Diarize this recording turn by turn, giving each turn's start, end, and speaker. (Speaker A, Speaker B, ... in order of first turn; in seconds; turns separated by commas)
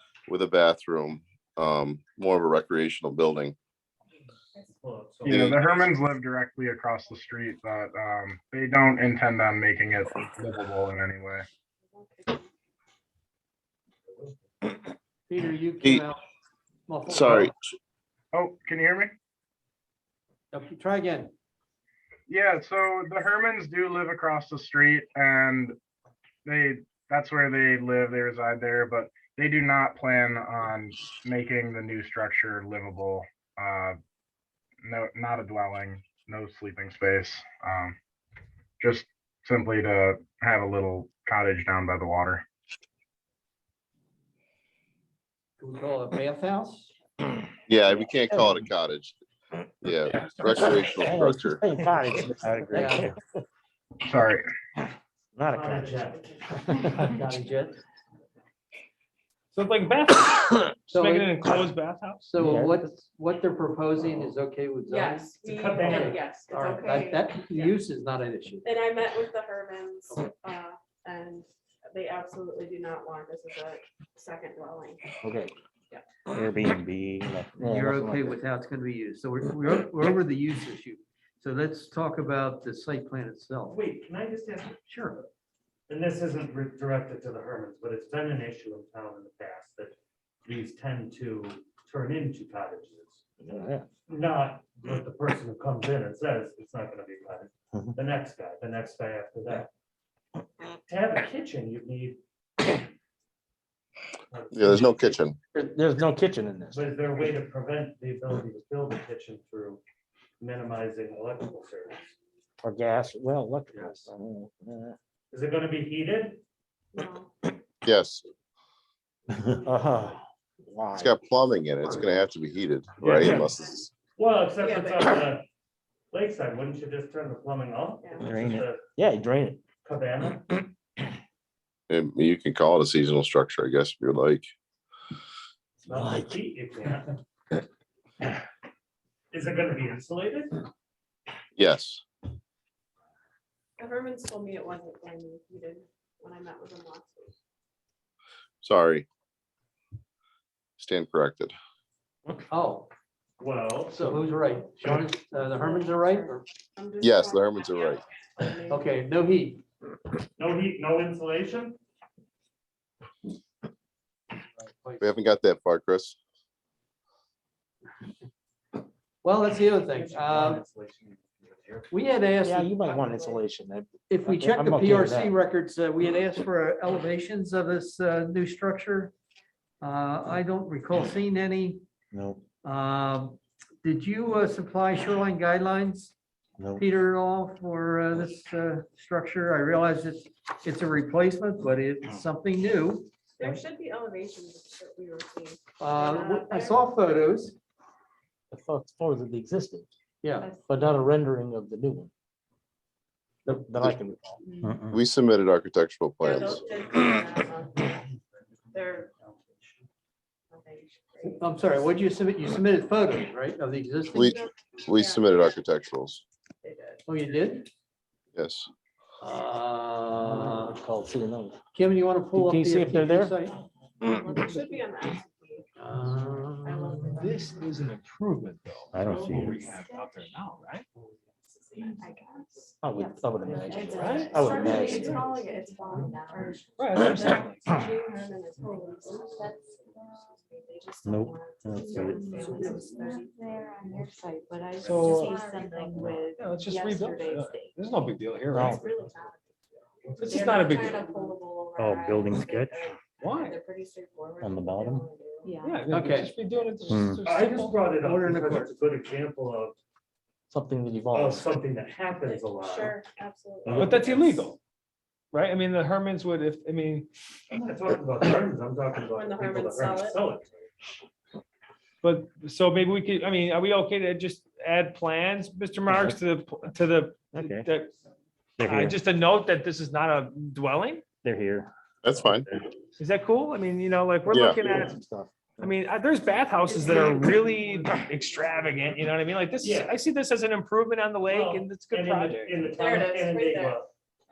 Speaker A: 0.3-3.6, Speaker B: 4.6-5.7, Speaker C: 5.3-11.5, Speaker D: 11.9-12.5, Speaker E: 15.3-16.2, Speaker E: 16.9-17.5, Speaker A: 17.1-17.6, Speaker C: 18.3-19.1, Speaker E: 20.5-21.3, Speaker C: 22.3-25.8, Speaker C: 26.4-34.0, Speaker C: 34.8-38.0, Speaker C: 38.8-42.4, Speaker E: 45.6-46.9, Speaker A: 47.7-49.2, Speaker A: 49.8-51.6, Speaker F: 50.1-53.2, Speaker E: 52.7-53.1, Speaker C: 54.0-54.4, Speaker F: 55.4-56.1, Speaker B: 55.5-56.5, Speaker E: 56.9-57.8, Speaker G: 59.5-62.4, Speaker E: 60.9-61.3, Speaker E: 62.3-68.7, Speaker F: 62.4-62.9, Speaker D: 64.9-67.8, Speaker B: 65.4-66.3, Speaker D: 68.6-75.0, Speaker F: 75.2-75.5, Speaker F: 76.3-78.4, Speaker E: 77.6-83.8, Speaker B: 83.7-85.3, Speaker E: 84.9-85.2, Speaker B: 85.9-89.9, Speaker B: 90.5-93.2, Speaker F: 93.4-93.9, Speaker B: 94.1-99.7, Speaker B: 100.7-102.8, Speaker B: 104.3-105.2, Speaker A: 104.5-105.4, Speaker F: 105.5-106.9, Speaker B: 106.7-109.8, Speaker B: 110.4-112.0, Speaker F: 112.6-115.0, Speaker B: 113.7-114.0, Speaker B: 115.3-116.4, Speaker D: 116.9-117.3, Speaker A: 117.8-118.2, Speaker F: 119.3-121.1, Speaker A: 120.9-123.9, Speaker B: 123.0-123.6, Speaker B: 124.2-125.5, Speaker D: 124.6-125.2, Speaker B: 126.1-128.8, Speaker F: 128.2-129.6, Speaker B: 129.8-130.6, Speaker A: 131.9-134.5, Speaker F: 135.9-136.4, Speaker B: 135.9-137.2, Speaker B: 139.3-140.7, Speaker A: 141.6-142.0, Speaker D: 143.8-147.3, Speaker A: 148.6-149.1, Speaker A: 150.8-151.5, Speaker E: 152.5-152.9, Speaker B: 153.4-154.2, Speaker E: 153.9-156.5, Speaker D: 155.1-159.1, Speaker A: 157.0-158.1, Speaker E: 158.7-159.6, Speaker B: 160.4-161.8, Speaker E: 164.8-165.1, Speaker A: 165.0-166.2, Speaker E: 169.2-170.6, Speaker B: 169.9-171.9, Speaker E: 171.9-173.0, Speaker F: 172.4-175.4, Speaker E: 174.1-179.1, Speaker E: 179.8-181.8, Speaker F: 182.1-182.4, Speaker E: 182.6-186.1, Speaker F: 186.6-186.8, Speaker E: 186.8-193.6, Speaker D: 193.4-197.0, Speaker E: 195.8-197.6, Speaker F: 198.5-199.9, Speaker E: 200.2-200.5, Speaker F: 200.7-202.1, Speaker F: 203.4-204.9, Speaker A: 204.9-206.7, Speaker D: 206.2-208.1, Speaker D: 208.7-209.1, Speaker D: 210.5-211.4, Speaker E: 211.2-214.4, Speaker A: 214.1-216.2, Speaker D: 214.2-215.5, Speaker D: 216.6-217.1, Speaker E: 217.1-217.7, Speaker A: 218.4-218.7, Speaker E: 219.2-220.8, Speaker F: 220.3-221.6, Speaker E: 221.7-223.6, Speaker F: 222.3-223.4, Speaker D: 224.0-225.7, Speaker E: 225.8-227.1, Speaker D: 226.6-227.6, Speaker G: 227.2-230.9, Speaker F: 228.9-229.6, Speaker D: 231.7-232.7, Speaker F: 232.8-235.2, Speaker H: 232.9-236.6, Speaker G: 233.9-234.4, Speaker D: 234.3-243.3, Speaker G: 236.8-237.7, Speaker F: 241.1-242.1, Speaker B: 241.9-242.8, Speaker H: 242.2-247.7, Speaker G: 244.8-245.2, Speaker D: 244.8-246.1, Speaker G: 246.3-248.9, Speaker F: 248.5-248.8, Speaker D: 248.6-249.5, Speaker B: 250.1-250.5, Speaker G: 250.2-251.3, Speaker D: 250.2-255.5, Speaker G: 253.2-253.6, Speaker G: 255.6-258.0, Speaker E: 255.7-256.3, Speaker F: 256.9-257.2, Speaker B: 257.2-259.8, Speaker E: 258.0-258.8, Speaker F: 260.5-261.4, Speaker B: 261.1-263.0, Speaker D: 262.3-264.5, Speaker B: 263.6-264.3, Speaker G: 263.8-264.6, Speaker G: 265.3-267.1, Speaker B: 267.6-270.7, Speaker D: 269.1-270.2, Speaker G: 272.0-277.9, Speaker F: 277.4-277.7, Speaker F: 278.6-279.0, Speaker G: 278.6-281.1, Speaker F: 281.2-281.7, Speaker A: 282.0-282.5, Speaker G: 283.0-285.0, Speaker A: 284.3-284.6, Speaker F: 284.8-285.7, Speaker G: 285.6-292.8, Speaker B: 289.6-289.9, Speaker B: 291.3-293.9, Speaker D: 292.7-293.8